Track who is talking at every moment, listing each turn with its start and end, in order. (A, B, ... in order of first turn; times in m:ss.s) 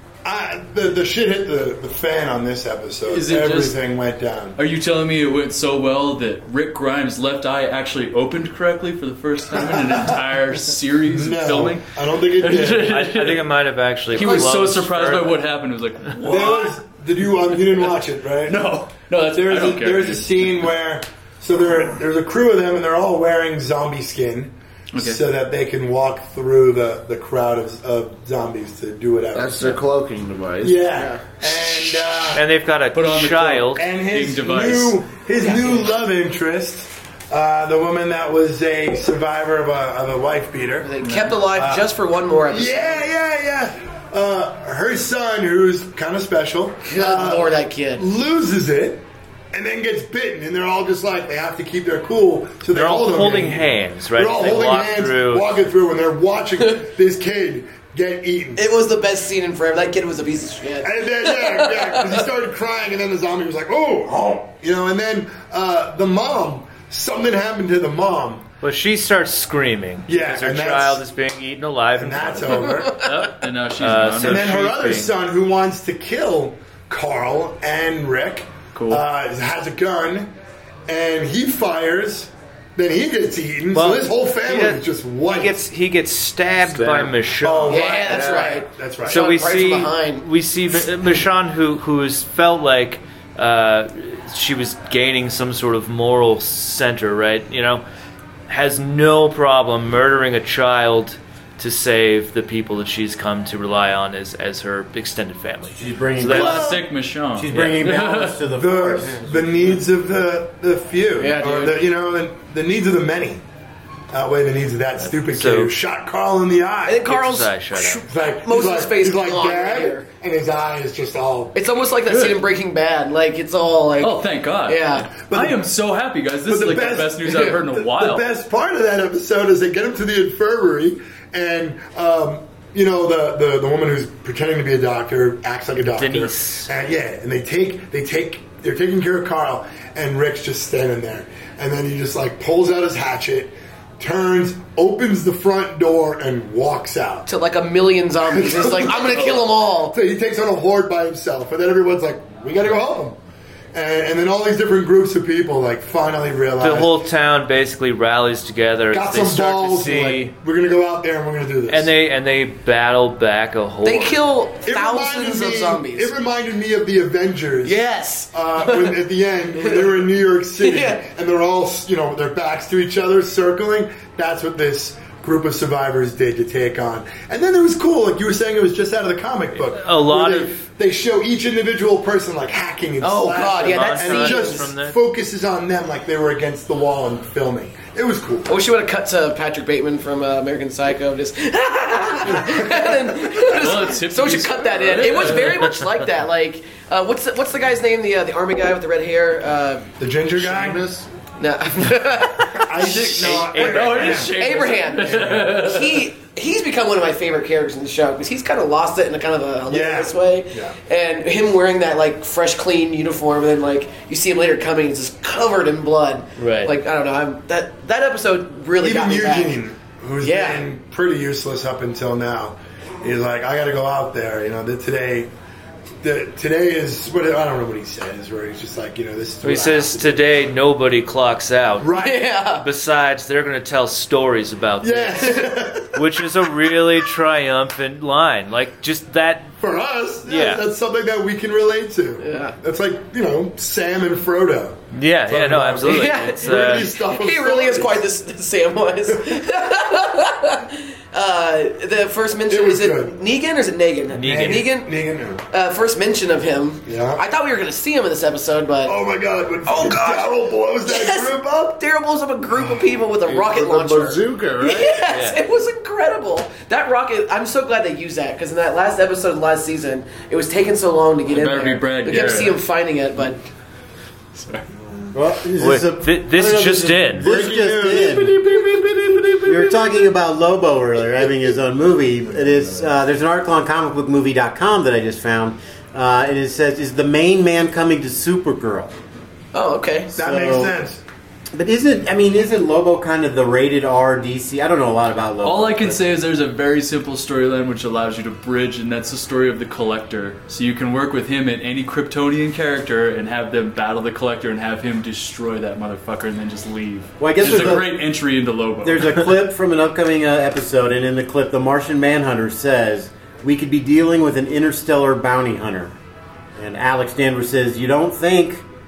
0:00.2-0:04.6 A
0:03.1-0:03.8 B
0:04.6-0:13.5 B
0:09.5-0:10.2 A
0:11.0-0:12.9 A
0:12.8-0:15.4 C
0:14.1-0:20.7 B
0:16.2-0:18.7 A
0:19.2-0:29.8 A
0:24.9-0:25.2 B
0:29.3-0:30.8 D
0:30.6-0:32.4 A
0:30.9-0:31.2 E
0:32.3-0:33.8 C
0:32.9-0:35.0 B
0:33.8-0:40.9 A
0:35.4-0:35.9 E
0:40.8-0:43.1 E
0:41.0-0:41.3 B
0:41.5-0:41.9 A
0:42.5-0:58.7 A
0:46.9-0:48.0 E
0:52.7-0:55.5 C
0:58.6-1:02.2 E
1:00.8-1:08.4 A
1:08.6-1:12.8 C
1:10.1-1:11.0 A
1:12.0-1:13.0 A
1:12.9-1:14.6 B
1:13.8-1:15.1 C
1:14.2-1:20.3 A
1:18.7-1:19.0 B
1:20.9-1:25.6 A
1:23.7-1:27.9 C
1:26.6-1:27.2 D
1:27.4-1:29.3 A
1:27.7-1:30.2 E
1:28.1-1:28.6 D
1:29.1-1:37.8 C
1:38.5-1:46.7 C
1:45.7-1:49.7 F
1:46.3-1:48.4 B
1:48.5-1:53.4 A
1:51.2-1:51.8 E
1:54.1-1:57.0 A
1:55.0-1:55.7 C
1:56.8-2:00.1 E
1:57.0-1:58.0 C
1:58.1-2:01.6 A
2:01.5-2:05.1 E
2:02.0-2:02.4 B
2:04.0-2:08.2 B
2:05.2-2:05.6 A
2:06.5-2:27.3 A
2:15.8-2:16.7 C
2:27.2-2:29.9 E
2:28.2-2:29.2 A
2:29.8-2:33.2 A
2:33.7-2:37.0 A
2:36.6-2:40.3 C
2:38.9-2:41.9 A
2:41.7-2:44.2 C
2:43.8-2:46.2 E
2:44.6-3:08.5 A
2:47.6-2:49.0 E
2:49.6-2:50.0 E
2:50.6-2:51.0 E
2:59.5-3:00.5 C
3:03.0-3:04.7 E
3:03.6-3:05.0 C
3:08.5-3:19.9 E
3:12.4-3:13.0 A
3:13.5-3:15.8 B
3:20.0-3:20.9 A
3:20.4-3:21.1 D
3:21.4-3:23.3 E
3:22.5-3:24.4 A
3:22.8-3:26.1 B
3:23.2-3:24.3 C
3:24.2-3:39.6 E
3:25.1-3:25.5 A
3:29.7-3:30.8 A
3:36.4-3:36.7 C
3:38.8-3:45.3 A
3:40.2-3:40.7 E
3:46.0-3:50.2 A
3:49.4-3:51.9 C
3:51.8-3:52.2 A
3:51.9-3:52.7 E
3:52.6-3:55.4 C
3:54.8-3:56.1 A
3:55.9-3:59.5 C
3:59.6-4:08.0 A
4:00.2-4:00.6 C
4:02.2-4:02.6 E
4:04.9-4:06.9 C
4:05.8-4:19.0 E
4:12.5-4:13.2 A
4:14.1-4:14.7 C
4:14.2-4:15.4 A
4:16.8-4:17.2 A
4:18.8-4:21.6 A
4:19.6-4:33.4 E
4:22.6-4:22.9 A
4:23.3-4:25.2 D
4:25.1-4:25.4 C
4:31.3-4:32.6 B
4:34.3-4:34.7 B
4:35.1-4:38.4 F
4:35.6-4:37.3 C
4:37.2-4:39.6 A
4:39.4-4:48.9 F
4:49.5-4:50.1 E
4:50.1-4:51.0 A
4:50.2-4:50.7 F
4:51.5-4:56.1 F
4:55.4-5:09.3 B
5:07.2-5:08.0 F
5:08.8-5:16.0 F
5:16.6-5:18.6 F